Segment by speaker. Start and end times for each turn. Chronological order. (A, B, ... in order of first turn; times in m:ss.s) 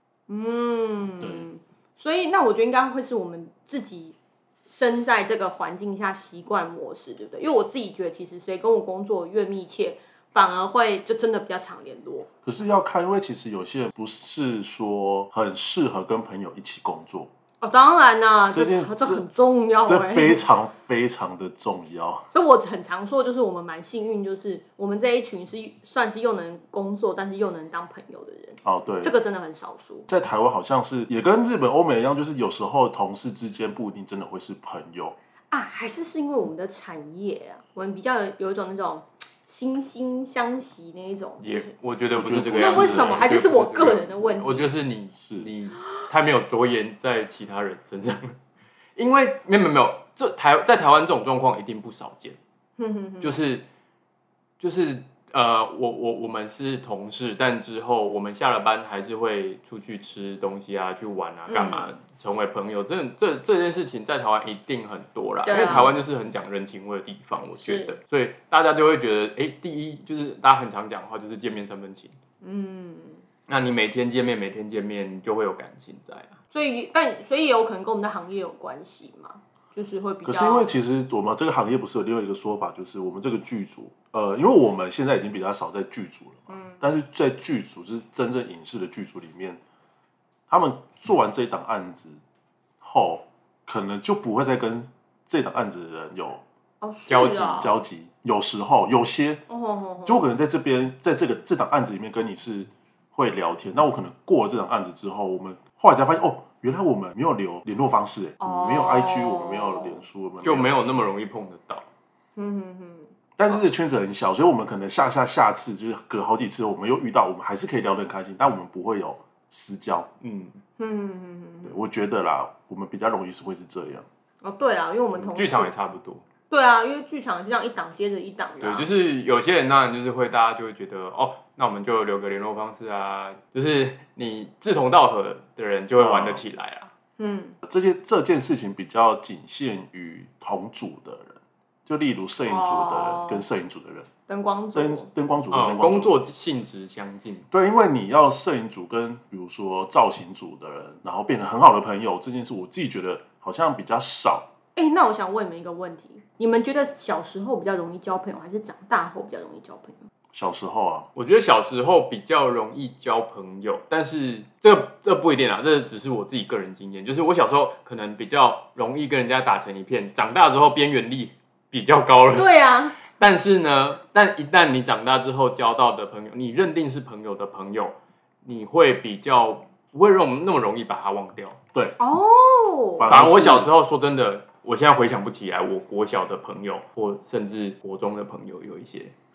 0:00.3-0:04.2 A
0:01.2-0:01.5 B
0:04.7-0:12.3 A
0:12.4-0:17.3 B
0:17.6-0:20.4 A
0:18.5-0:19.2 B
0:19.9-0:22.2 B
0:22.3-0:30.1 A
0:28.6-0:29.2 B
0:30.1-0:35.2 B
0:35.5-0:41.7 A
0:41.4-0:48.4 C
0:42.1-0:43.4 B
0:42.6-0:44.7 A
0:45.1-0:45.5 B
0:49.0-0:52.4 C
0:52.8-0:53.4 A
0:53.2-0:53.6 C
0:54.6-1:12.2 C
1:01.5-1:01.9 A
1:05.5-1:06.0 A
1:07.6-1:07.9 A
1:12.4-1:13.2 A
1:13.5-1:16.4 C
1:16.5-1:20.7 A
1:20.2-1:29.6 B
1:26.5-1:26.8 A
1:30.5-1:32.2 B
1:32.8-1:36.4 B
1:36.8-1:37.7 A
1:37.1-1:37.4 C
1:37.2-1:39.4 B
1:39.5-1:40.3 A
1:40.1-1:51.0 B
1:48.4-1:50.0 A
1:50.4-1:51.9 C
1:52.4-1:53.6 A
1:53.4-2:00.1 B
2:00.2-2:00.6 C
2:00.8-2:01.8 A
2:01.6-2:04.1 B
2:04.4-2:05.7 A
2:05.2-2:06.2 C
2:06.5-2:08.9 A
2:08.6-2:16.9 C
2:16.0-2:16.4 B
2:17.2-2:17.6 A
2:17.6-2:24.1 B
2:22.5-2:23.4 A
2:24.3-2:25.1 A
2:24.8-2:26.2 B
2:25.5-2:27.5 C
2:27.5-2:34.5 B
2:34.8-2:40.1 A
2:40.3-2:41.1 B
2:41.2-3:01.6 C
2:52.3-2:53.0 A
3:02.0-3:03.1 A
3:03.0-3:03.7 B
3:03.1-3:09.1 C